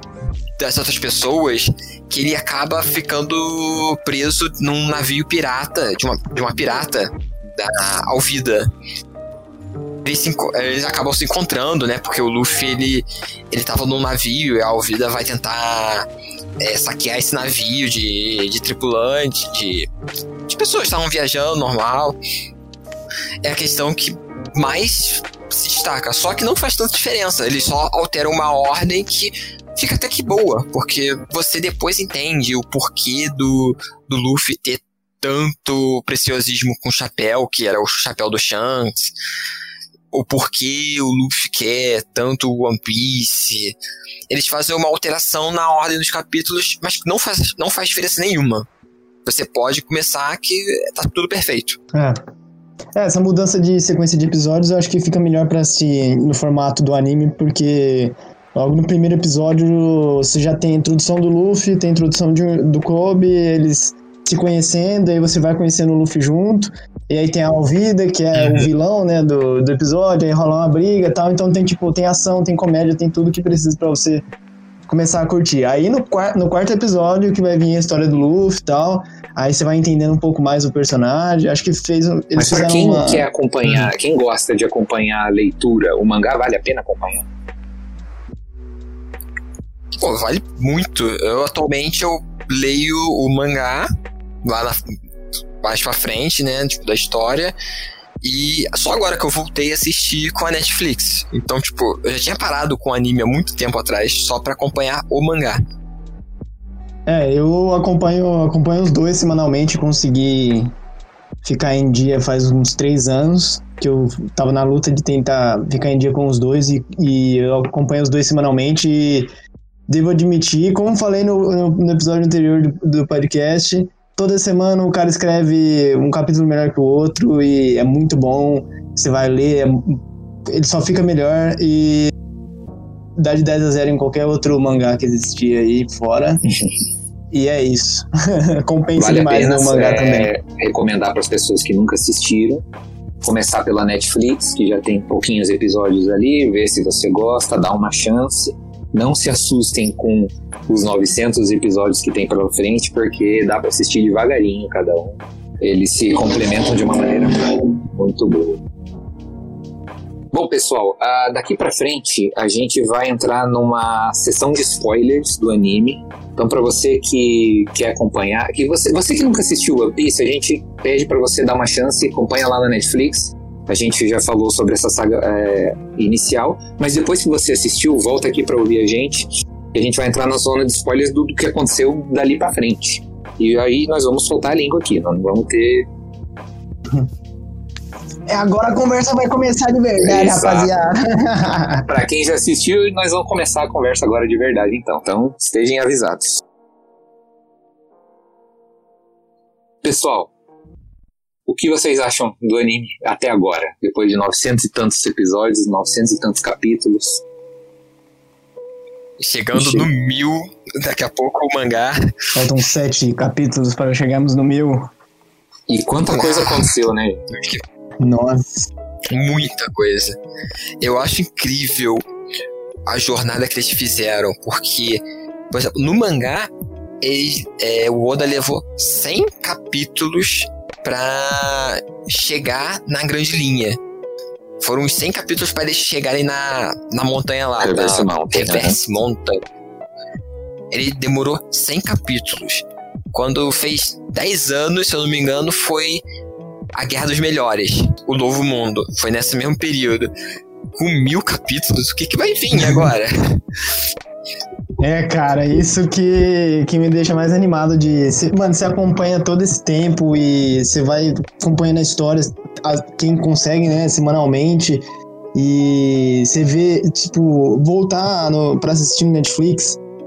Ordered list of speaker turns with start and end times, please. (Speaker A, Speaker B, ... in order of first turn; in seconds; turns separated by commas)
Speaker A: 0.6-8.7, Speaker A: 10.0-16.1, Speaker A: 16.6-19.9, Speaker A: 20.5-22.2, Speaker A: 23.4-39.1, Speaker A: 40.1-43.8, Speaker A: 44.3-48.7, Speaker A: 49.2-51.8, Speaker B: 51.9-52.2, Speaker B: 52.9-74.2, Speaker A: 68.3-68.7, Speaker B: 74.9-83.3, Speaker C: 82.3-87.2, Speaker A: 90.0-93.9, Speaker A: 94.4-94.8, Speaker A: 95.6-97.5, Speaker A: 98.2-105.6, Speaker B: 107.1-110.7, Speaker B: 111.4-119.3, Speaker B: 119.9-132.1, Speaker B: 133.2-136.4, Speaker C: 136.5-136.8, Speaker B: 137.3-140.3, Speaker C: 139.0-142.6, Speaker C: 143.2-158.6, Speaker C: 160.3-185.9, Speaker B: 188.3-191.8, Speaker C: 190.0-190.7, Speaker C: 191.9-196.4, Speaker C: 199.8-200.3, Speaker C: 201.4-207.2, Speaker A: 209.2-212.0, Speaker B: 209.6-209.8, Speaker B: 212.3-214.9, Speaker C: 215.7-217.2, Speaker A: 216.1-216.7, Speaker A: 217.3-217.6, Speaker B: 218.0-218.7, Speaker A: 219.1-220.1, Speaker A: 220.8-222.0, Speaker A: 222.9-226.5, Speaker A: 227.0-233.8, Speaker A: 234.6-239.4, Speaker C: 237.6-238.8, Speaker A: 240.7-246.0, Speaker A: 246.8-250.1, Speaker A: 250.8-253.4, Speaker B: 252.5-252.9, Speaker B: 254.8-264.8, Speaker B: 265.3-269.8